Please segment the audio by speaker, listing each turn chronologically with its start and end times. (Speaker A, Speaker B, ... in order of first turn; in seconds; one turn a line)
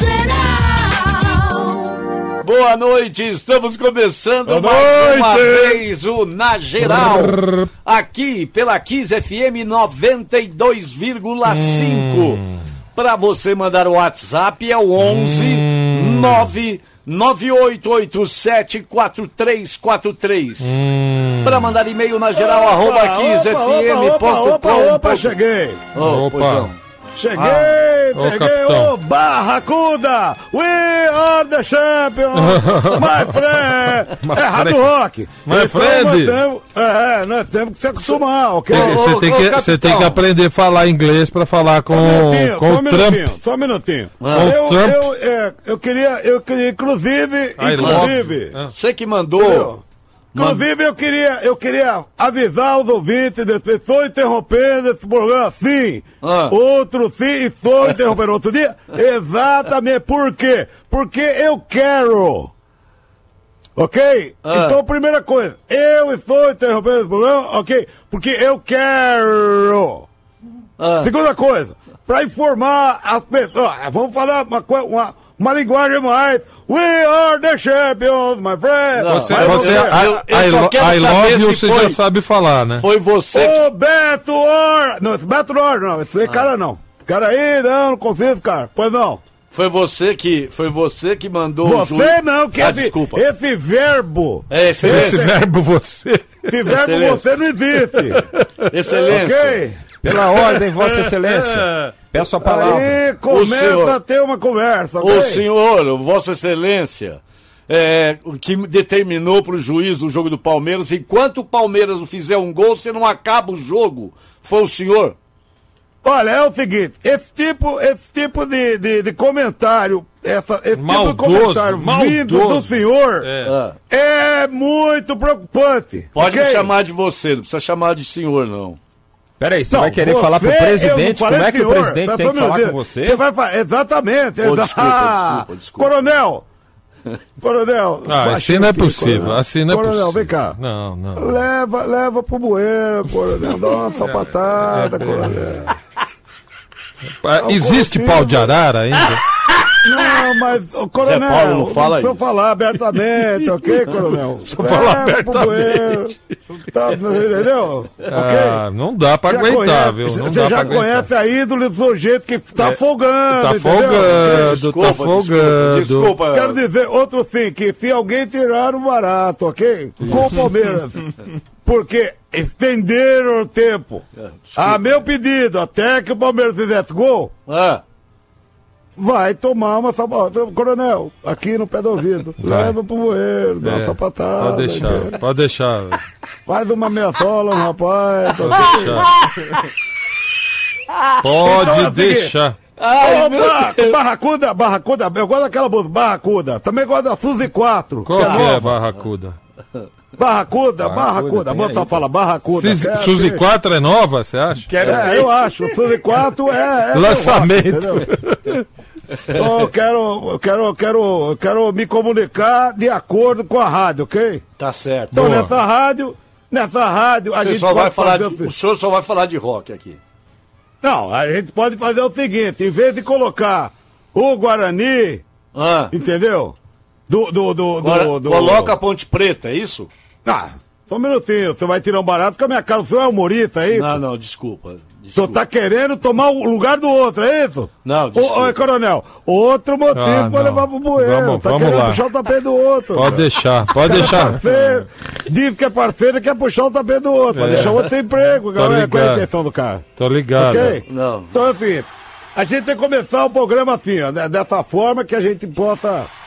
Speaker A: 2.4-12.4
Speaker B: 4.5-5.8
Speaker B: 11.5-12.4
Speaker A: 12.9-20.7
Speaker B: 15.0-16.5
Speaker B: 20.6-21.7
Speaker A: 21.4-25.4
Speaker C: 22.4-25.8
Speaker A: 25.9-26.8
Speaker B: 26.0-26.7
Speaker C: 27.1-39.1
Speaker A: 27.4-27.7
Speaker B: 28.1-28.9
Speaker B: 32.3-33.1
Speaker B: 34.1-34.9
Speaker B: 35.4-36.4
Speaker A: 38.7-40.2
Speaker B: 38.7-43.3
Speaker C: 41.9-48.5
Speaker A: 44.2-44.5
Speaker B: 44.3-45.1
Speaker B: 47.6-48.7
Speaker A: 47.8-49.7
Speaker C: 49.4-49.8
Speaker A: 50.3-50.6
Speaker C: 50.3-62.5
Speaker A: 56.2-56.5
Speaker C: 63.8-70.1
Speaker A: 64.4-64.8
Speaker A: 70.8-71.1
Speaker C: 71.0-80.0
Speaker A: 78.9-82.0
Speaker B: 79.0-82.8
Speaker A: 82.8-83.6
Speaker C: 83.3-89.2
Speaker A: 86.2-86.5
Speaker A: 89.5-93.2
Speaker C: 91.6-95.2
Speaker A: 94.5-95.3
Speaker B: 94.8-96.8
Speaker C: 96.5-98.2
Speaker A: 96.7-97.3
Speaker B: 97.9-98.7
Speaker A: 98.7-99.6
Speaker C: 99.1-99.8
Speaker D: 100.0-103.0
Speaker B: 100.3-100.6
Speaker C: 102.4-105.4
Speaker A: 103.3-104.0
Speaker A: 105.0-115.2
Speaker C: 116.0-123.3
Speaker B: 120.7-123.5
Speaker A: 123.4-123.8
Speaker C: 123.9-126.7
Speaker A: 126.1-128.8
Speaker D: 129.4-133.2
Speaker C: 129.7-136.4
Speaker A: 134.4-135.9
Speaker C: 137.4-140.6
Speaker B: 138.1-141.4
Speaker C: 141.2-145.7
Speaker B: 144.0-145.6
Speaker B: 147.2-149.2
Speaker C: 147.4-148.6
Speaker C: 149.8-156.2
Speaker A: 151.0-152.2
Speaker B: 154.5-156.0
Speaker C: 156.7-158.6
Speaker B: 158.1-161.1
Speaker C: 159.3-164.6
Speaker B: 163.3-166.2
Speaker A: 164.1-166.6
Speaker C: 166.3-174.0
Speaker A: 174.2-175.0
Speaker C: 174.6-177.3
Speaker A: 177.5-177.8
Speaker C: 179.0-185.2
Speaker B: 182.4-182.8
Speaker B: 183.6-186.0
Speaker C: 186.5-189.1
Speaker B: 188.4-189.1
Speaker A: 188.5-189.6
Speaker B: 191.2-192.6
Speaker C: 191.4-192.3
Speaker A: 192.8-193.9
Speaker C: 193.0-198.7
Speaker B: 198.1-199.4
Speaker A: 198.2-198.5
Speaker C: 200.2-203.4
Speaker D: 200.8-202.0
Speaker B: 202.5-204.7
Speaker D: 204.7-205.3
Speaker C: 204.8-208.1
Speaker A: 204.8-205.2
Speaker B: 206.9-208.6
Speaker C: 209.3-214.4
Speaker A: 214.6-215.3
Speaker C: 215.1-218.5
Speaker B: 215.1-215.5
Speaker A: 217.4-220.0
Speaker C: 220.8-225.2
Speaker A: 225.5-225.9
Speaker C: 225.9-226.6
Speaker C: 227.1-228.7
Speaker A: 227.8-229.9
Speaker C: 230.2-234.0
Speaker A: 233.7-235.4
Speaker C: 235.2-249.8
Speaker A: 237.8-238.6
Speaker B: 239.9-242.0
Speaker B: 242.9-244.4
Speaker B: 247.3-247.8
Speaker A: 247.5-247.8
Speaker B: 248.5-249.3
Speaker B: 250.0-250.8
Speaker C: 250.3-256.1
Speaker A: 250.8-251.3